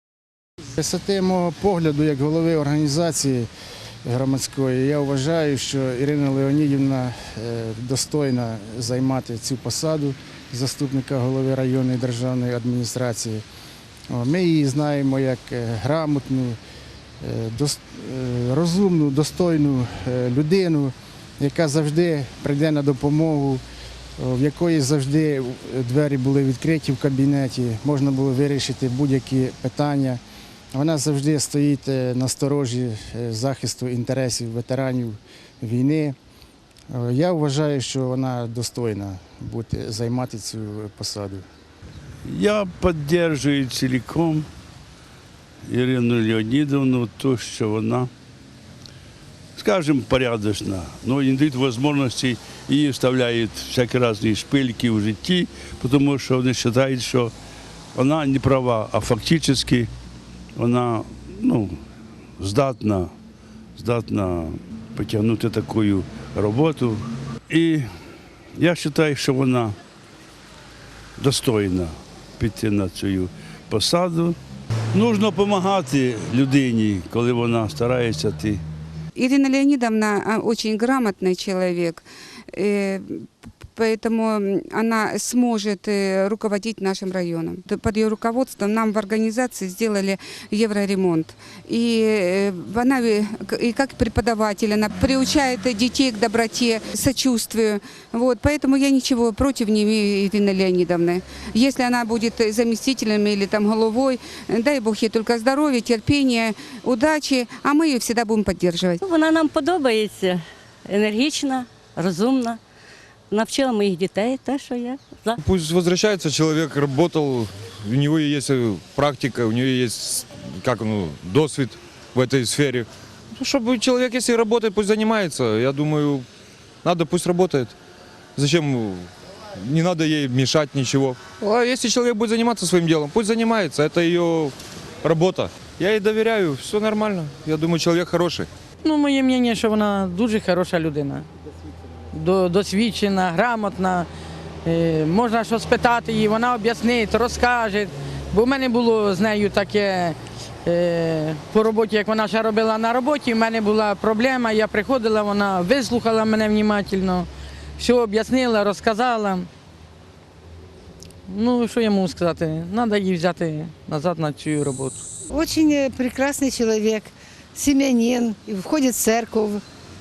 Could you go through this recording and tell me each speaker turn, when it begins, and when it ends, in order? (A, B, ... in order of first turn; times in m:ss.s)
0:00.7-0:03.5 A
0:04.1-0:13.4 A
0:14.1-0:16.6 A
0:17.2-0:23.6 A
0:24.2-0:30.2 A
0:30.7-0:36.2 A
0:36.9-0:41.5 A
0:42.3-0:44.5 B
0:45.7-0:48.1 B
0:49.6-0:57.3 B
0:58.0-0:59.9 B
1:00.6-1:01.8 B
1:02.4-1:03.1 B
1:03.8-1:07.0 B
1:07.5-1:07.9 B
1:08.6-1:09.8 B
1:11.2-1:14.4 B
1:14.9-1:18.6 B
1:19.2-1:49.0 C
1:49.1-1:52.6 D
1:53.3-1:55.3 D
1:55.4-2:06.3 E
2:06.8-2:07.8 E
2:08.4-2:18.5 E
2:18.8-2:21.3 F
2:22.1-2:24.1 F
2:24.6-2:37.3 F
2:37.8-2:39.5 F
2:41.3-2:45.0 F
2:45.3-2:49.6 G